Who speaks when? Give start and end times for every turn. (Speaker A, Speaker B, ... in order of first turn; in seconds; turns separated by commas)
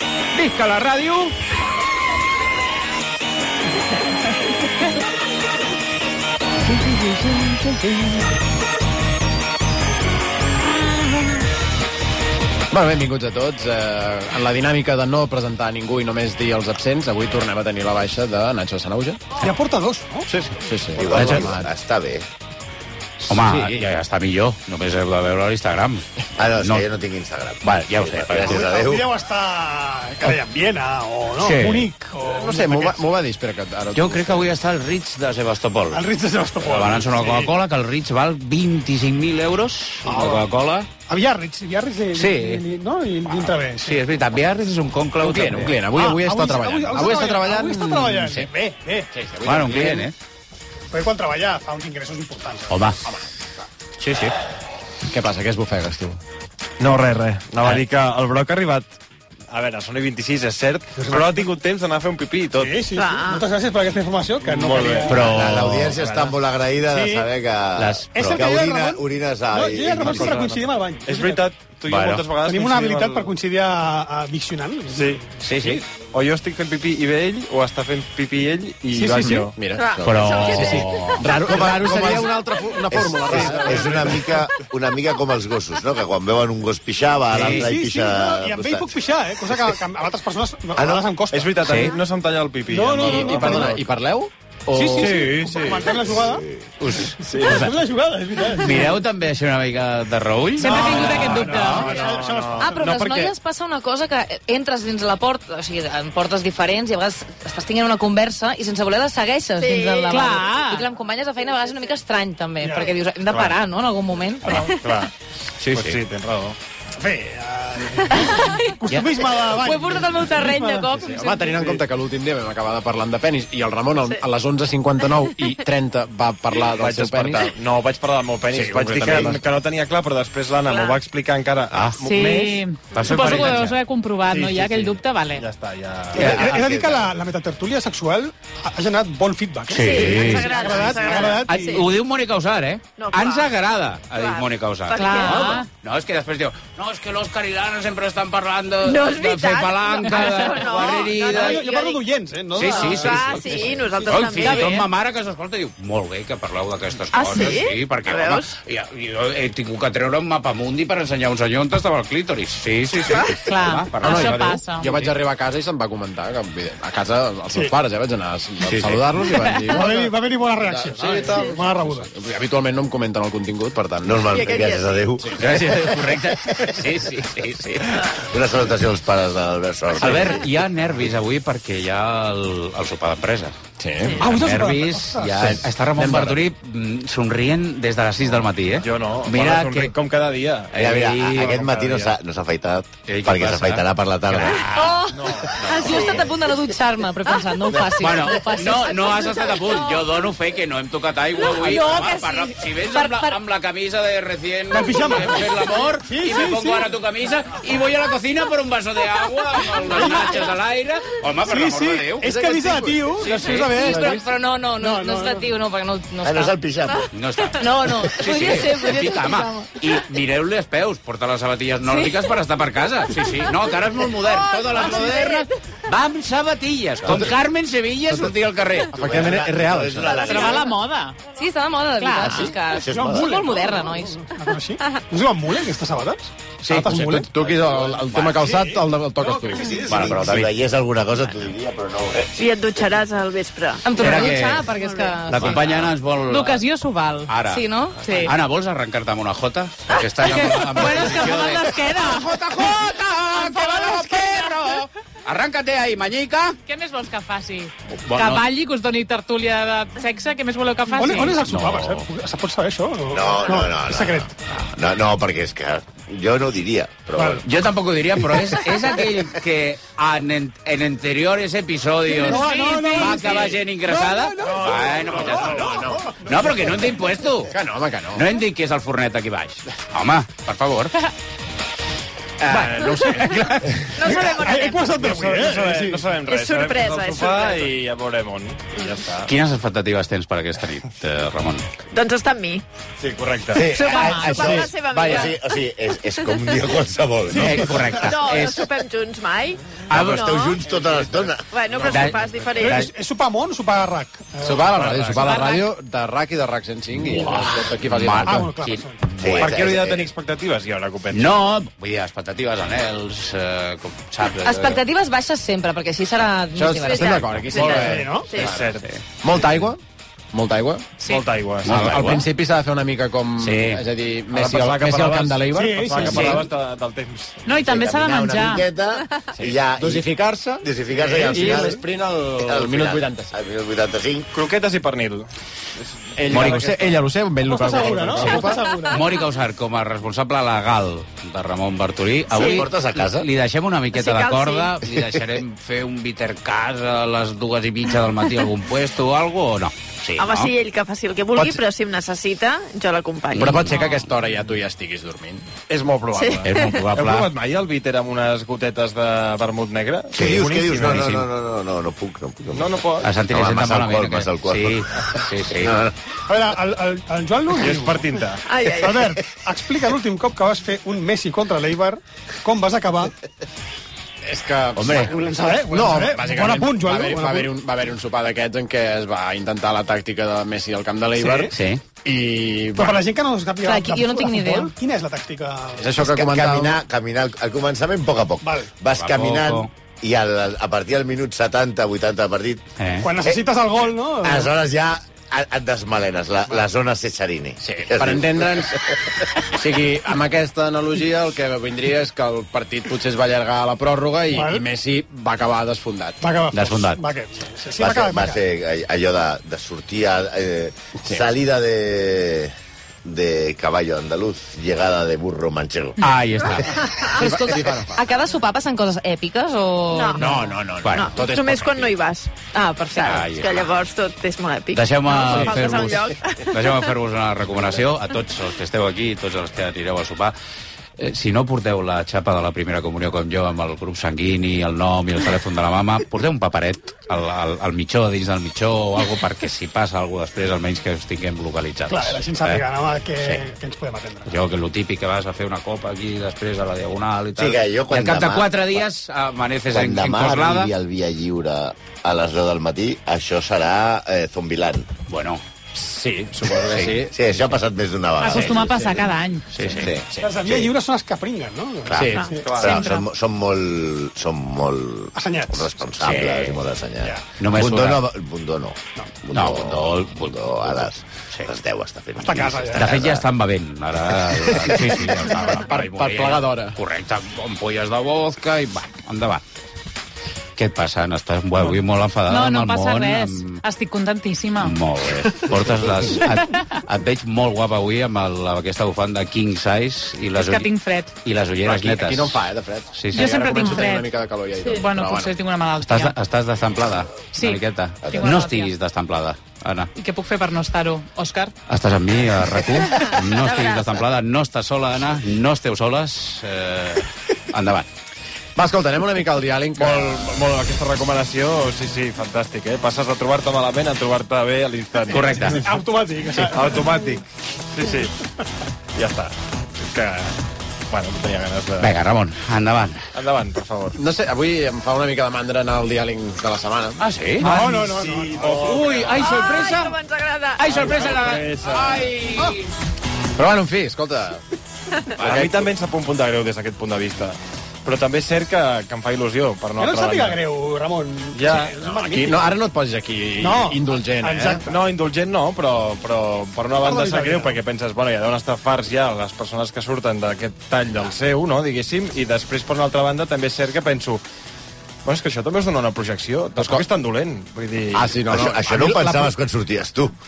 Speaker A: 0.3-1.3, Speaker B: 12.7-19.4, Speaker C: 19.4-20.3, Speaker B: 20.3-21.7, Speaker D: 21.0-22.3, Speaker E: 21.1-21.4, Speaker A: 23.3-26.1, Speaker B: 23.3-23.9, Speaker D: 26.4-29.1, Speaker A: 26.6-26.9, Speaker A: 27.6-28.6, Speaker C: 28.3-33.0, Speaker A: 31.4-31.9, Speaker B: 32.2-34.5, Speaker A: 33.9-36.1, Speaker C: 35.9-37.5, Speaker A: 36.6-40.9, Speaker C: 40.0-40.4, Speaker C: 41.1-44.0, Speaker A: 42.1-42.6, Speaker A: 43.4-45.8, Speaker B: 45.2-48.5, Speaker C: 45.9-49.1, Speaker B: 49.1-50.1, Speaker A: 49.4-50.1, Speaker C: 50.9-52.7, Speaker A: 52.7-53.0, Speaker A: 54.0-54.4, Speaker B: 55.1-56.2, Speaker E: 56.8-59.0, Speaker E: 59.5-62.8, Speaker C: 61.0-61.5, Speaker C: 62.5-65.4, Speaker F: 62.9-63.5, Speaker E: 64.4-66.3, Speaker A: 65.1-66.0, Speaker D: 65.2-70.4, Speaker C: 66.8-67.3, Speaker A: 67.8-68.4, Speaker C: 68.1-71.5, Speaker A: 70.0-70.5, Speaker E: 70.1-73.3, Speaker A: 71.9-72.2, Speaker C: 72.2-75.2, Speaker E: 74.9-79.6, Speaker A: 75.4-75.8, Speaker C: 78.9-79.5, Speaker B: 79.2-84.3, Speaker F: 79.8-80.7, Speaker A: 80.0-81.6, Speaker D: 81.4-82.3, Speaker D: 82.9-88.9, Speaker E: 83.3-84.4, Speaker A: 87.3-87.7, Speaker C: 87.5-91.8, Speaker D: 90.8-91.1, Speaker E: 91.3-93.9, Speaker A: 91.6-92.0, Speaker C: 92.7-93.8, Speaker B: 93.0-95.5, Speaker E: 94.7-96.2, Speaker C: 94.9-96.5, Speaker D: 96.2-96.6, Speaker A: 96.8-97.6, Speaker C: 97.2-99.0, Speaker E: 97.2-97.8, Speaker A: 98.6-101.8, Speaker G: 100.6-102.0, Speaker E: 100.7-102.8, Speaker C: 101.8-102.7, Speaker H: 102.6-114.7, Speaker B: 102.8-103.3, Speaker F: 109.6-110.3, Speaker G: 110.1-110.9, Speaker C: 112.6-113.0, Speaker E: 113.3-113.5, Speaker E: 114.5-115.1, Speaker A: 115.6-116.0, Speaker E: 115.6-116.6, Speaker C: 117.0-120.9, Speaker H: 119.4-121.7, Speaker B: 120.9-127.5, Speaker E: 126.8-133.7, Speaker B: 128.5-129.4, Speaker F: 130.6-131.0, Speaker A: 131.7-132.0, Speaker G: 132.0-135.4, Speaker A: 132.9-133.8, Speaker E: 134.2-136.5, Speaker C: 136.1-141.8, Speaker A: 136.2-136.6, Speaker D: 136.2-137.1, Speaker A: 139.7-151.7, Speaker F: 139.8-141.9, Speaker F: 143.0-143.5, Speaker F: 144.1-145.6, Speaker G: 144.9-145.7, Speaker F: 148.8-152.0, Speaker G: 150.0-150.7, Speaker C: 151.2-154.1, Speaker A: 152.6-165.1, Speaker F: 152.6-154.7, Speaker G: 154.4-154.9, Speaker F: 157.1-158.5, Speaker F: 163.1-163.4, Speaker G: 163.4-165.0, Speaker B: 164.0-174.5, Speaker A: 168.7-169.0, Speaker G: 169.4-169.8, Speaker C: 169.7-172.1, Speaker D: 174.0-176.7, Speaker F: 174.3-175.1, Speaker A: 175.3-178.0, Speaker D: 178.1-180.5, Speaker A: 180.0-183.5, Speaker B: 183.8-184.5, Speaker A: 184.2-189.9, Speaker C: 184.2-185.5, Speaker B: 185.2-186.4, Speaker E: 188.8-192.1, Speaker A: 190.7-192.1, Speaker D: 190.7-194.7, Speaker A: 193.1-195.0, Speaker H: 194.8-199.6, Speaker E: 195.1-196.2, Speaker D: 197.7-198.2, Speaker A: 198.0-212.3, Speaker H: 201.4-203.4, Speaker C: 204.7-206.9, Speaker C: 211.5-214.2, Speaker B: 212.2-214.2, Speaker A: 213.2-213.8, Speaker H: 213.5-216.6, Speaker C: 214.8-215.5, Speaker D: 216.2-217.1, Speaker A: 217.1-228.9, Speaker H: 217.6-219.7, Speaker H: 221.8-222.1, Speaker H: 224.8-225.3, Speaker D: 227.1-227.3, Speaker D: 228.9-230.7, Speaker B: 228.9-230.5, Speaker G: 230.1-231.2, Speaker H: 231.3-234.2, Speaker G: 232.0-232.6, Speaker D: 232.5-233.3, Speaker C: 232.8-237.4, Speaker A: 236.6-237.5, Speaker B: 236.7-239.8, Speaker A: 238.1-238.4, Speaker C: 238.3-239.8, Speaker D: 239.7-242.3, Speaker A: 239.7-240.5, Speaker F: 242.3-245.7, Speaker H: 243.8-245.7, Speaker A: 244.0-244.7, Speaker A: 245.3-246.7, Speaker G: 246.2-247.3, Speaker A: 247.3-247.7, Speaker H: 247.4-248.3, Speaker G: 248.0-248.3, Speaker A: 248.2-256.6, Speaker G: 250.2-252.4, Speaker G: 256.7-261.4, Speaker A: 257.9-258.5, Speaker C: 260.9-264.3, Speaker A: 261.4-262.1, Speaker D: 263.1-267.4, Speaker C: 267.2-267.4, Speaker A: 267.4-277.5, Speaker G: 272.2-273.5, Speaker C: 272.2-277.0, Speaker B: 274.5-276.1, Speaker B: 277.5-278.3, Speaker A: 278.1-281.0, Speaker B: 282.4-284.0, Speaker E: 282.5-283.0, Speaker F: 284.0-285.1, Speaker C: 284.0-286.0, Speaker E: 284.8-289.3, Speaker F: 286.2-287.8, Speaker A: 289.2-291.7, Speaker F: 291.9-292.6, Speaker E: 293.0-293.7, Speaker D: 293.5-298.1, Speaker G: 293.8-294.6, Speaker F: 293.8-295.5, Speaker C: 297.3-298.1, Speaker A: 297.3-298.6, Speaker F: 298.0-300.7, Speaker D: 299.9-301.6, Speaker A: 299.9-300.3, Speaker F: 301.5-302.9, Speaker E: 301.7-302.5, Speaker A: 301.9-302.9, Speaker C: 302.6-305.0, Speaker B: 304.4-308.5, Speaker G: 305.1-305.7, Speaker A: 307.0-309.6, Speaker C: 308.2-309.0, Speaker D: 309.2-310.1, Speaker E: 309.4-311.4, Speaker A: 311.1-314.8, Speaker H: 314.4-317.4, Speaker B: 316.5-318.2, Speaker F: 316.8-318.6, Speaker A: 317.3-317.8, Speaker C: 317.6-318.3, Speaker E: 318.3-319.5, Speaker A: 318.4-319.0, Speaker B: 319.2-319.8, Speaker B: 320.3-320.9, Speaker G: 321.0-321.3, Speaker E: 321.0-322.0, Speaker A: 321.6-322.3, Speaker B: 321.7-326.5, Speaker A: 323.4-323.8, Speaker E: 324.3-327.4, Speaker C: 325.5-326.4, Speaker G: 327.4-328.7, Speaker D: 327.5-334.3, Speaker B: 329.4-333.3, Speaker E: 330.9-331.7, Speaker E: 334.3-335.3, Speaker E: 336.0-336.8, Speaker B: 336.2-338.6, Speaker A: 336.3-336.9, Speaker C: 337.4-339.1, Speaker A: 338.2-350.5, Speaker F: 342.3-342.6, Speaker D: 342.4-343.3, Speaker F: 343.9-344.7, Speaker D: 344.9-345.2, Speaker F: 350.2-353.7, Speaker A: 353.3-353.9, Speaker B: 353.3-355.5, Speaker E: 355.7-361.2, Speaker F: 356.1-356.8, Speaker A: 356.4-357.3, Speaker D: 360.1-365.9, Speaker A: 360.8-361.2, Speaker E: 362.5-363.1, Speaker A: 363.0-365.9, Speaker C: 366.3-373.1, Speaker E: 367.6-368.4, Speaker F: 368.5-369.1, Speaker B: 374.2-381.5, Speaker A: 374.8-375.1, Speaker C: 375.0-377.6, Speaker C: 381.2-381.5, Speaker A: 381.5-381.8, Speaker B: 382.0-383.0, Speaker C: 382.8-385.9, Speaker H: 383.6-384.7, Speaker B: 385.8-386.8, Speaker D: 386.0-392.6, Speaker C: 388.4-388.7, Speaker A: 388.9-389.7, Speaker A: 392.8-393.1, Speaker C: 393.0-394.5, Speaker D: 394.2-398.8, Speaker B: 397.6-398.8, Speaker B: 399.5-406.2, Speaker C: 404.3-404.6, Speaker C: 406.2-408.4, Speaker A: 406.5-407.0, Speaker D: 407.8-412.5, Speaker D: 413.0-416.0, Speaker A: 416.0-417.1, Speaker B: 417.1-418.0, Speaker H: 417.2-420.3, Speaker F: 419.9-420.4, Speaker B: 420.2-422.0, Speaker A: 420.8-421.2, Speaker F: 420.9-426.6, Speaker H: 422.7-423.2, Speaker A: 423.0-423.8, Speaker A: 424.7-430.4, Speaker B: 425.3-425.8, Speaker A: 431.0-442.6, Speaker C: 441.9-444.4, Speaker A: 444.3-450.7, Speaker D: 447.4-448.8, Speaker D: 449.7-454.9, Speaker A: 455.1-455.4, Speaker B: 455.8-457.4, Speaker A: 456.7-457.0, Speaker D: 456.9-459.1, Speaker G: 458.2-459.5, Speaker A: 459.5-459.9, Speaker D: 459.8-460.7, Speaker C: 460.2-462.6, Speaker A: 461.9-462.1, Speaker B: 461.9-462.3, Speaker E: 462.4-462.8, Speaker D: 462.5-473.2, Speaker G: 462.6-463.1, Speaker C: 465.2-465.7, Speaker A: 466.0-466.6, Speaker A: 467.4-468.0, Speaker A: 469.3-471.5, Speaker C: 472.2-473.0, Speaker A: 472.7-479.4, Speaker B: 474.7-476.8, Speaker A: 480.6-483.6, Speaker G: 482.3-484.8, Speaker A: 484.6-490.7, Speaker G: 490.4-491.1, Speaker A: 491.2-493.6, Speaker B: 491.6-495.4, Speaker G: 493.1-494.1, Speaker G: 494.7-496.2, Speaker A: 495.8-499.9, Speaker G: 497.3-498.7, Speaker D: 498.0-498.4, Speaker G: 499.9-501.5, Speaker A: 501.7-507.9, Speaker B: 508.6-510.2, Speaker E: 509.8-515.8, Speaker A: 515.1-515.7, Speaker C: 515.5-516.9, Speaker E: 516.4-518.1, Speaker E: 519.0-520.4, Speaker E: 520.9-521.9, Speaker A: 521.8-523.1, Speaker E: 523.1-524.0, Speaker B: 523.9-527.0, Speaker A: 527.0-527.6, Speaker C: 527.4-528.7, Speaker E: 527.4-529.3, Speaker A: 528.4-530.0, Speaker F: 529.2-530.6, Speaker A: 530.6-532.7, Speaker E: 530.6-532.2, Speaker B: 533.4-534.4, Speaker E: 535.2-540.4, Speaker B: 535.2-535.7, Speaker C: 539.8-542.4, Speaker E: 541.3-541.8, Speaker B: 541.9-544.6, Speaker C: 543.4-544.8, Speaker E: 544.6-554.2, Speaker C: 546.8-547.6, Speaker E: 555.0-558.6, Speaker B: 556.6-556.9, Speaker B: 557.9-559.4, Speaker D: 558.3-560.2